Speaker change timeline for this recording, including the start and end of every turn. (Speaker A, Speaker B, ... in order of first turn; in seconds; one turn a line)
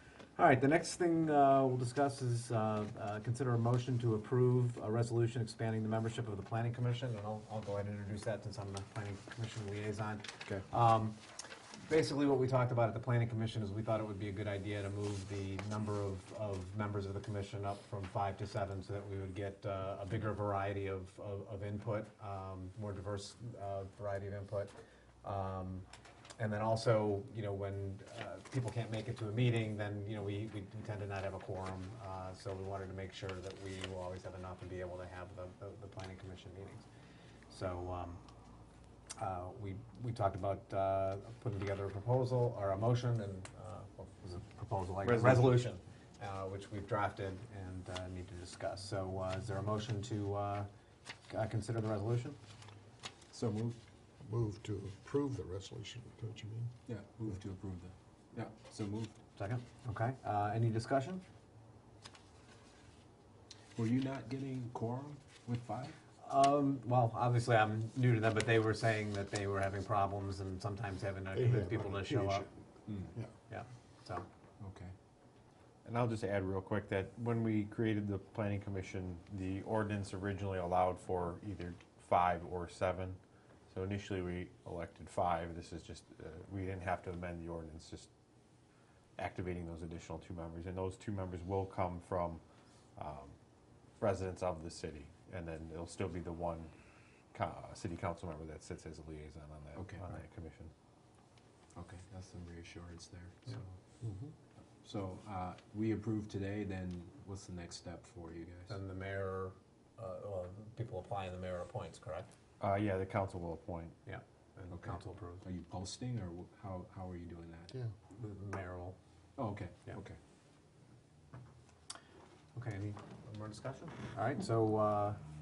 Speaker A: 0.4-11.2
Speaker A: 11.8-25.9
Speaker A: 26.4-36.9
Speaker A: 37.5-38.2
Speaker A: 39.2-50.7
Speaker B: 45.0-45.6
Speaker A: 51.3-52.4
Speaker C: 53.3-53.8
Speaker D: 54.2-56.7
Speaker C: 56.9-59.1
Speaker A: 59.4-61.2
Speaker C: 63.8-66.0
Speaker A: 66.2-72.5
Speaker D: 71.3-72.5
Speaker C: 72.9-73.1
Speaker A: 73.5-74.3
Speaker C: 74.6-74.9
Speaker B: 75.8-88.1
Speaker B: 89.2-92.4
Speaker B: 93.0-93.3
Speaker B: 94.0-96.7
Speaker B: 97.3-100.7
Speaker C: 99.7-100.0
Speaker C: 101.8-103.7
Speaker C: 104.8-108.7
Speaker A: 108.7-112.3
Speaker B: 112.6-114.0
Speaker A: 114.0-115.4
Speaker C: 114.7-117.7
Speaker A: 118.1-119.0
Speaker C: 119.4-120.2
Speaker A: 122.5-125.2